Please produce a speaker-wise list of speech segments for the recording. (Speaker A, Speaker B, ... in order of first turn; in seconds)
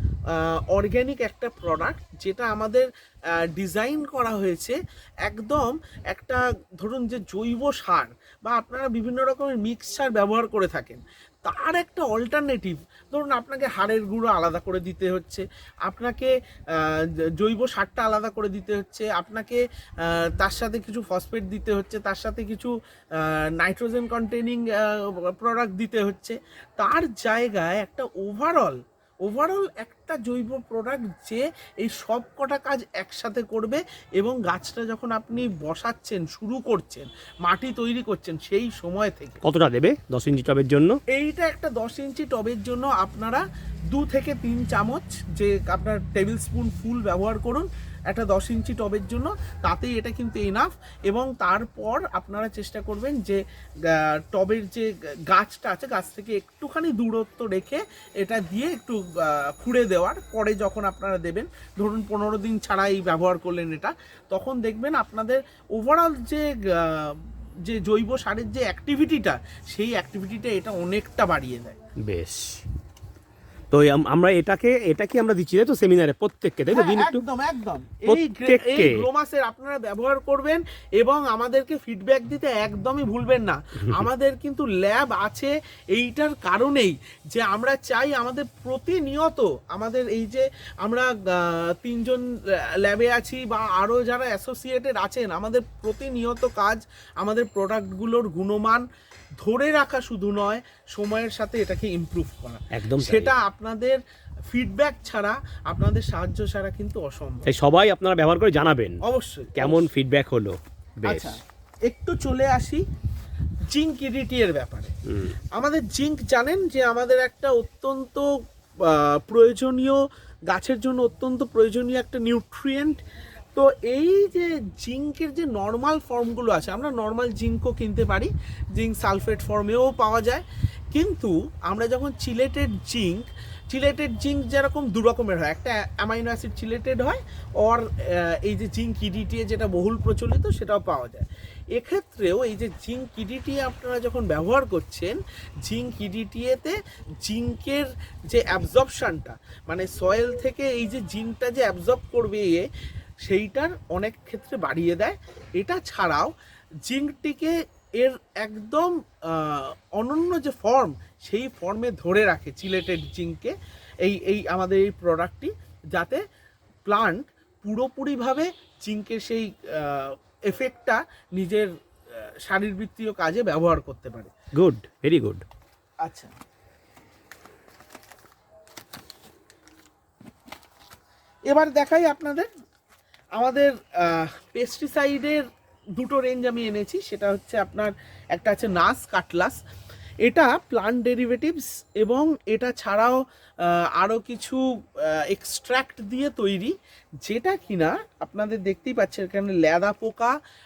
Speaker A: 0.3-39.4, 41.1-71.8, 76.7-98.9, 99.4-107.5, 109.0-109.9, 111.1-112.8, 113.7-114.9, 115.5-123.0, 123.5-152.7, 153.2-156.3, 156.8-166.2, 166.8-174.3, 176.0-176.3, 181.5-182.5, 183.4-185.5, 186.0-189.6, 190.2-200.4
Speaker B: 39.4-41.0, 72.1-72.6, 73.7-77.2, 78.1-79.1, 83.8-84.1, 102.7-103.3, 107.5-109.0, 109.6-111.4, 115.1-115.3, 174.6-175.4